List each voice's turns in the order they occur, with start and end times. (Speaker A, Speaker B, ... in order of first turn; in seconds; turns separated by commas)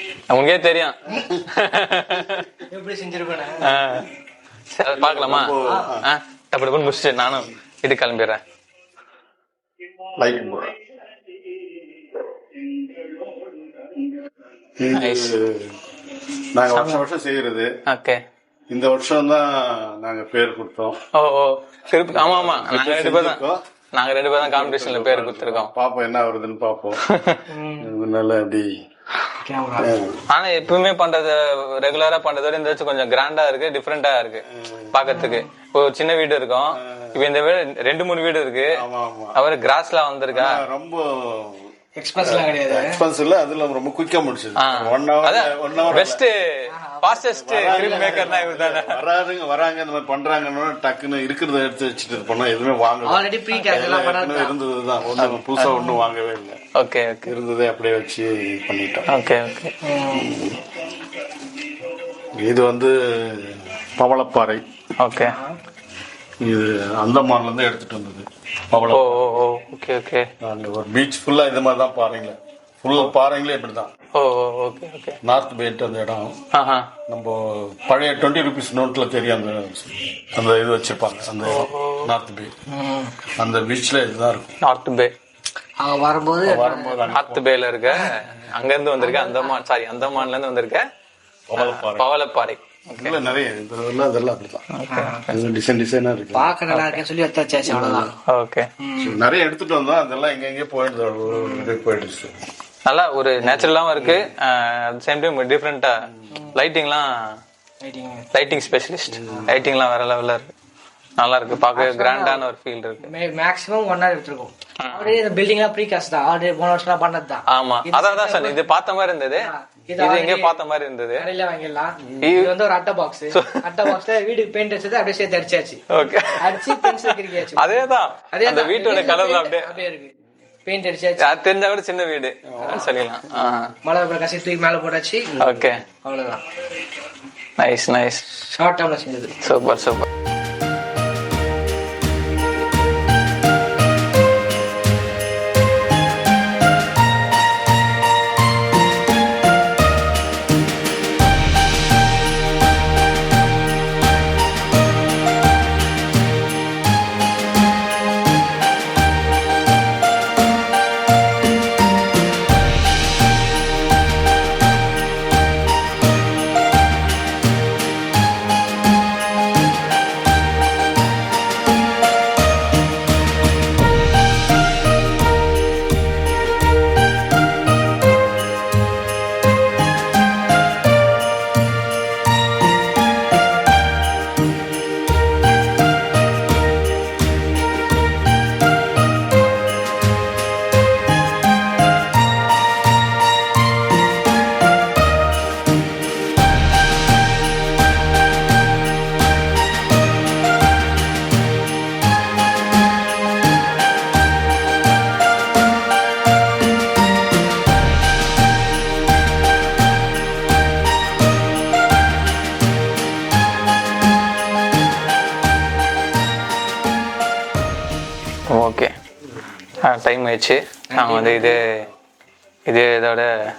Speaker A: 0.2-2.5, Speaker B: 2.7-3.8, Speaker A: 3.6-4.1, Speaker A: 4.7-8.4, Speaker C: 4.9-6.0, Speaker C: 10.2-10.8, Speaker C: 12.6-13.5, Speaker C: 14.8-15.8, Speaker A: 14.9-15.3, Speaker C: 16.5-17.7, Speaker A: 16.7-17.1, Speaker A: 17.9-18.2, Speaker C: 18.7-21.0, Speaker A: 21.2-23.4, Speaker C: 22.1-23.6, Speaker A: 23.9-25.7, Speaker C: 24.4-27.0, Speaker A: 27.1-27.4, Speaker B: 27.5-27.9, Speaker C: 27.8-28.7, Speaker B: 29.4-29.9, Speaker C: 29.8-30.2, Speaker A: 30.3-38.8, Speaker C: 34.5-35.0, Speaker B: 35.1-35.5, Speaker C: 36.8-37.1, Speaker C: 38.8-39.4, Speaker A: 39.4-40.6, Speaker C: 40.3-46.2, Speaker B: 42.0-43.0, Speaker A: 44.6-46.4, Speaker B: 46.7-48.4, Speaker A: 47.0-49.0, Speaker C: 47.3-56.6, Speaker B: 53.1-54.5, Speaker A: 55.2-55.9, Speaker A: 56.8-57.3, Speaker C: 57.2-59.1, Speaker A: 59.1-59.7, Speaker B: 59.8-60.3, Speaker C: 60.0-60.8, Speaker C: 62.4-64.6, Speaker A: 65.0-65.4, Speaker B: 65.2-65.6, Speaker C: 66.4-69.2, Speaker A: 68.9-70.3, Speaker C: 70.4-73.9, Speaker A: 74.2-75.2, Speaker C: 75.2-76.4, Speaker A: 76.5-76.9, Speaker C: 77.1-82.5, Speaker A: 81.5-82.1, Speaker B: 82.7-83.2, Speaker C: 83.3-84.6, Speaker A: 84.6-85.1, Speaker B: 85.8-87.0, Speaker C: 86.4-87.4, Speaker A: 87.1-90.8, Speaker B: 89.0-89.6, Speaker C: 91.5-92.1, Speaker A: 91.6-93.3, Speaker C: 93.0-94.7, Speaker A: 94.7-95.3, Speaker B: 94.9-95.3, Speaker C: 95.3-96.5, Speaker B: 96.3-98.1, Speaker A: 96.7-97.0, Speaker C: 97.7-98.2, Speaker A: 98.3-98.7, Speaker B: 98.8-99.2, Speaker C: 99.0-102.3, Speaker B: 101.3-101.7, Speaker A: 102.9-107.1, Speaker C: 103.4-104.3, Speaker B: 107.8-108.2, Speaker A: 108.3-110.5, Speaker C: 109.1-109.6, Speaker A: 111.2-113.1, Speaker B: 111.7-112.4, Speaker B: 113.0-118.7, Speaker A: 114.8-115.2, Speaker A: 117.5-121.3, Speaker B: 119.3-120.6, Speaker B: 121.2-125.8, Speaker A: 122.2-122.5, Speaker A: 123.3-123.9, Speaker A: 125.9-129.8, Speaker B: 126.4-130.1, Speaker B: 130.7-131.4, Speaker A: 131.2-133.8, Speaker C: 132.6-133.4, Speaker B: 132.6-132.9, Speaker B: 133.8-135.4, Speaker A: 135.4-135.8, Speaker C: 135.4-135.7, Speaker B: 136.0-136.4, Speaker A: 137.6-138.3, Speaker B: 138.5-139.3, Speaker A: 139.4-140.1, Speaker A: 218.5-218.9, Speaker A: 219.8-221.8, Speaker B: 220.9-221.6, Speaker A: 222.7-223.3